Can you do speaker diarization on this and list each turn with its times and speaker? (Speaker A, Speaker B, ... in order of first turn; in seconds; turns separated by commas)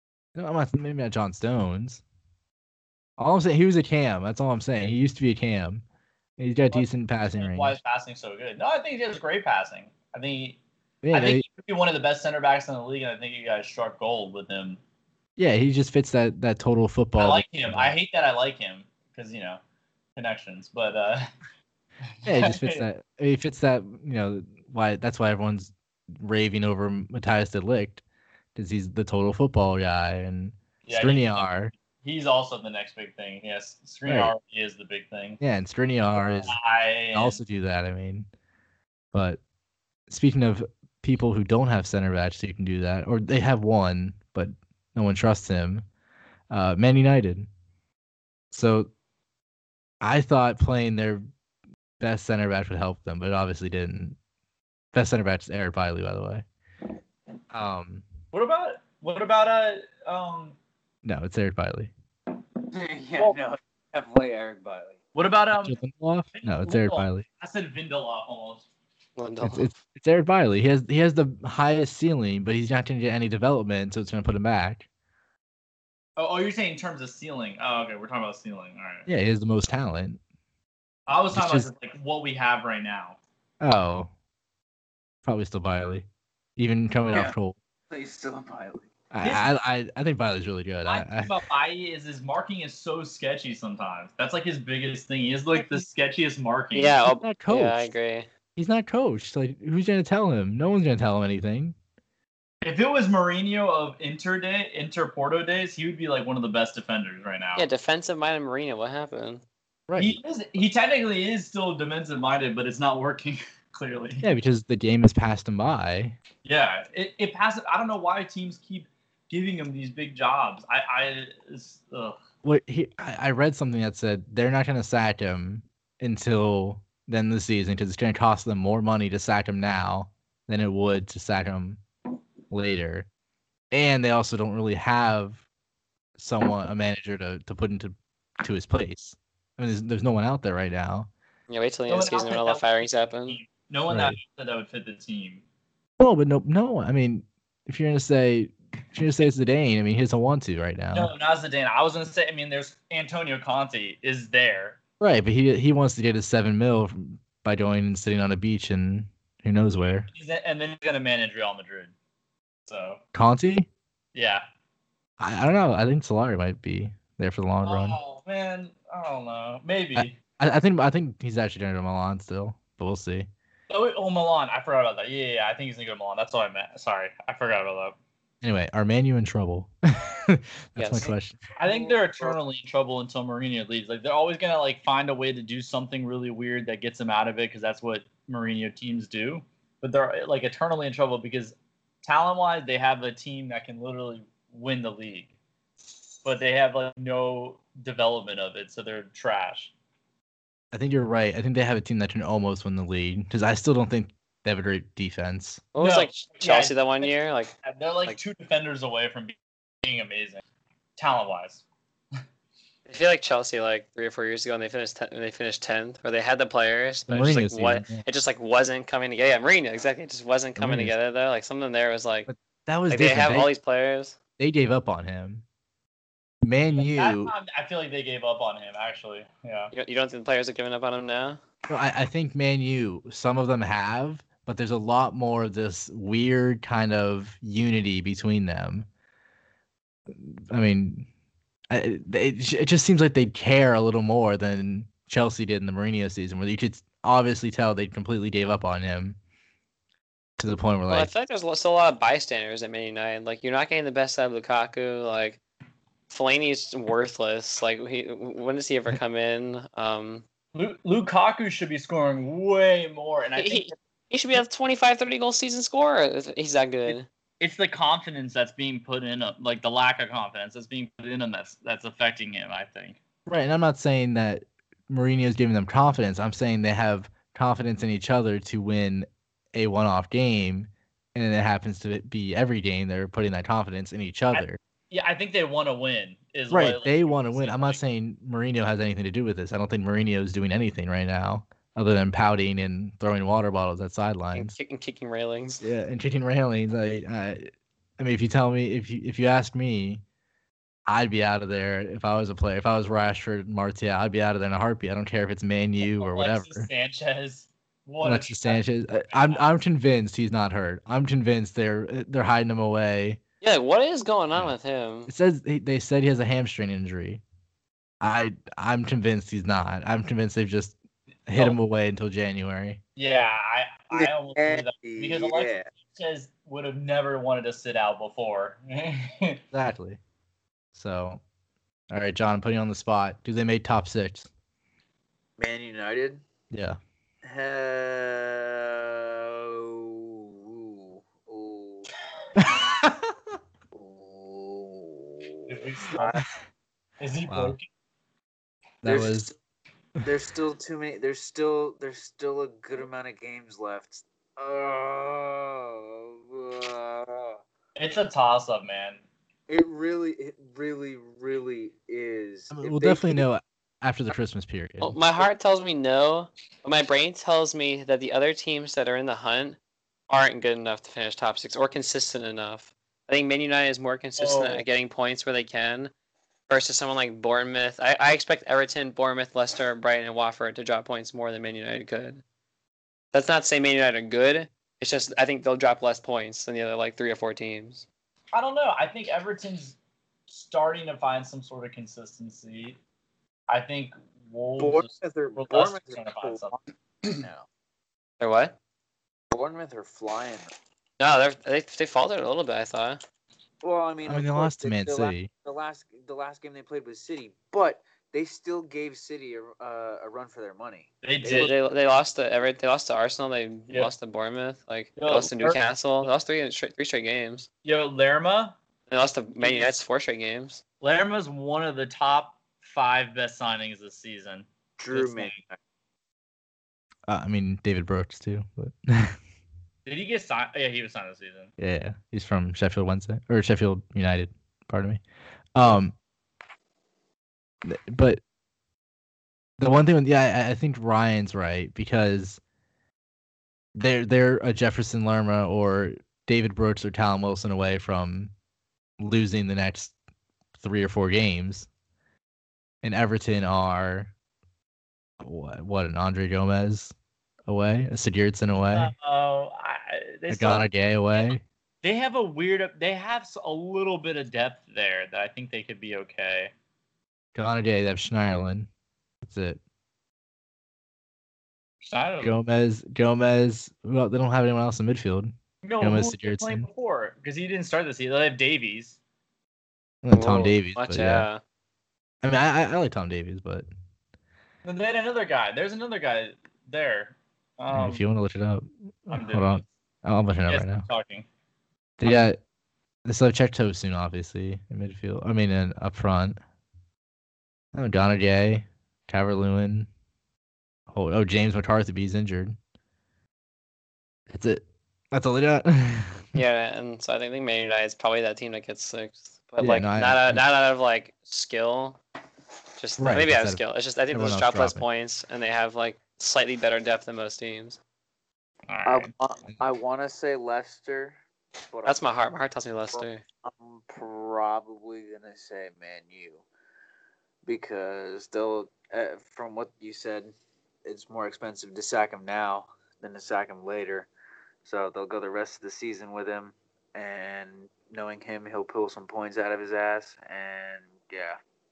Speaker A: 0.3-2.0, Speaker A: 3.2-5.8, Speaker A: 6.4-7.8, Speaker B: 6.7-10.6, Speaker A: 11.0-11.4, Speaker B: 11.1-14.8, Speaker A: 15.4-17.9, Speaker B: 17.2-19.6, Speaker B: 20.1-21.3, Speaker B: 22.2-22.8, Speaker A: 22.2-28.0, Speaker A: 28.5-31.7, Speaker B: 30.9-31.4, Speaker B: 32.0-35.4, Speaker A: 34.0-34.3, Speaker A: 35.4-36.6, Speaker B: 36.3-37.4, Speaker A: 37.1-38.3, Speaker A: 39.1-39.4, Speaker A: 40.1-45.9, Speaker A: 46.5-47.5, Speaker A: 48.5-48.9, Speaker A: 50.0-51.2, Speaker A: 52.0-54.2, Speaker A: 54.9-56.4, Speaker A: 57.5-58.0, Speaker B: 58.3-60.5, Speaker A: 61.0-61.9, Speaker C: 62.7-65.0, Speaker B: 65.1-65.8, Speaker A: 65.5-67.2, Speaker B: 66.3-68.7, Speaker D: 69.2-69.7, Speaker A: 69.4-74.9, Speaker B: 76.2-79.1, Speaker A: 79.1-80.2, Speaker B: 81.1-83.2, Speaker A: 81.3-81.7, Speaker A: 83.6-84.1, Speaker A: 85.2-86.0, Speaker A: 86.6-87.6, Speaker C: 87.1-87.3, Speaker C: 87.9-88.9, Speaker A: 89.1-91.3, Speaker B: 89.2-89.5, Speaker B: 90.8-97.0, Speaker D: 96.7-98.3, Speaker A: 97.1-97.8, Speaker A: 98.5-101.7, Speaker B: 102.6-107.7, Speaker D: 107.5-109.4, Speaker A: 109.9-110.2, Speaker B: 110.0-114.2, Speaker A: 114.2-116.2, Speaker B: 116.4-122.2, Speaker A: 122.4-131.8, Speaker A: 132.5-133.1, Speaker A: 133.7-135.4, Speaker A: 136.2-141.1, Speaker D: 141.5-143.4, Speaker B: 141.9-145.4, Speaker A: 143.9-144.2, Speaker A: 146.0-151.1, Speaker B: 150.9-154.8, Speaker A: 155.0-160.1, Speaker B: 160.1-161.9, Speaker B: 162.7-163.0, Speaker A: 163.1-163.7, Speaker B: 164.1-164.4, Speaker A: 165.2-168.0, Speaker B: 167.6-170.2, Speaker A: 169.9-173.3, Speaker B: 173.7-177.9, Speaker A: 178.4-181.4, Speaker D: 180.8-181.1, Speaker B: 181.6-195.3, Speaker C: 181.6-182.3, Speaker B: 196.2-199.7, Speaker A: 200.7-205.6, Speaker D: 205.7-207.5, Speaker B: 205.8-207.1, Speaker B: 207.6-210.4, Speaker B: 211.0-211.6, Speaker D: 212.8-222.3, Speaker A: 217.1-218.0, Speaker A: 220.6-220.9, Speaker A: 222.3-223.5, Speaker D: 222.9-224.2, Speaker A: 224.4-225.4, Speaker A: 226.4-227.3, Speaker B: 226.7-229.7, Speaker D: 229.7-231.4, Speaker A: 231.7-238.9, Speaker A: 240.1-241.1, Speaker A: 241.7-249.2, Speaker A: 250.4-251.1, Speaker D: 250.9-255.4, Speaker D: 256.1-260.2, Speaker B: 260.5-263.7, Speaker D: 263.4-267.1, Speaker B: 266.9-273.0, Speaker A: 273.2-284.6, Speaker B: 284.3-287.8, Speaker A: 286.5-294.5, Speaker D: 294.3-295.6, Speaker A: 295.6-300.0, Speaker A: 300.9-306.7, Speaker B: 305.8-309.4, Speaker A: 308.0-313.2, Speaker D: 313.4-315.1, Speaker A: 315.1-317.2, Speaker A: 318.0-320.8, Speaker A: 321.3-322.8, Speaker B: 322.9-329.4, Speaker C: 323.9-325.7, Speaker A: 329.5-330.0, Speaker A: 330.7-331.2, Speaker A: 331.9-334.3, Speaker C: 335.4-336.2, Speaker A: 336.5-336.8, Speaker C: 337.2-341.9, Speaker A: 342.4-342.9, Speaker C: 343.7-346.2, Speaker B: 345.5-346.2, Speaker B: 347.0-347.6, Speaker A: 347.3-347.6, Speaker A: 348.8-349.3, Speaker C: 348.9-349.3, Speaker C: 350.0-357.4, Speaker B: 357.8-359.0, Speaker C: 359.5-363.2, Speaker A: 362.5-364.9, Speaker D: 364.8-369.6, Speaker D: 370.1-375.9, Speaker B: 374.2-374.6, Speaker D: 376.5-382.2, Speaker D: 383.1-387.9, Speaker B: 388.3-389.8, Speaker B: 390.3-392.8, Speaker B: 393.5-396.6, Speaker C: 394.6-397.4, Speaker D: 398.2-398.5, Speaker C: 399.3-400.5, Speaker D: 401.0-403.0, Speaker C: 403.6-411.6, Speaker A: 404.0-405.3, Speaker B: 411.0-411.5, Speaker D: 411.3-417.5, Speaker B: 415.0-415.6, Speaker B: 417.6-418.6, Speaker D: 418.9-420.6, Speaker B: 419.4-419.8, Speaker B: 420.8-425.6, Speaker C: 424.8-425.3, Speaker A: 427.1-429.2, Speaker B: 429.9-431.5, Speaker A: 431.6-435.0, Speaker A: 435.5-435.9, Speaker A: 437.6-438.2, Speaker A: 439.6-442.4, Speaker A: 443.7-448.3, Speaker A: 449.0-449.9, Speaker A: 450.6-451.7, Speaker A: 452.8-454.1, Speaker A: 455.2-456.9, Speaker A: 457.5-458.9, Speaker B: 458.7-466.5, Speaker A: 460.3-461.4, Speaker A: 467.3-468.7, Speaker A: 469.2-469.6, Speaker B: 471.8-472.4, Speaker A: 472.2-476.7, Speaker B: 475.6-479.0, Speaker A: 480.0-481.3, Speaker D: 480.1-481.4, Speaker A: 482.2-483.6, Speaker B: 484.6-488.0, Speaker A: 487.7-490.9, Speaker B: 489.1-489.7, Speaker B: 490.5-491.2, Speaker A: 492.0-492.4, Speaker A: 493.1-496.4, Speaker A: 497.7-499.9, Speaker A: 500.9-502.6, Speaker A: 504.3-506.3, Speaker D: 506.3-512.0, Speaker A: 509.6-510.4, Speaker D: 512.8-517.8, Speaker A: 513.0-514.8, Speaker B: 518.7-519.1, Speaker C: 518.9-521.2, Speaker C: 521.7-522.0, Speaker D: 521.8-523.2, Speaker C: 522.9-526.4, Speaker C: 527.4-530.3, Speaker C: 530.8-534.1, Speaker C: 534.6-541.4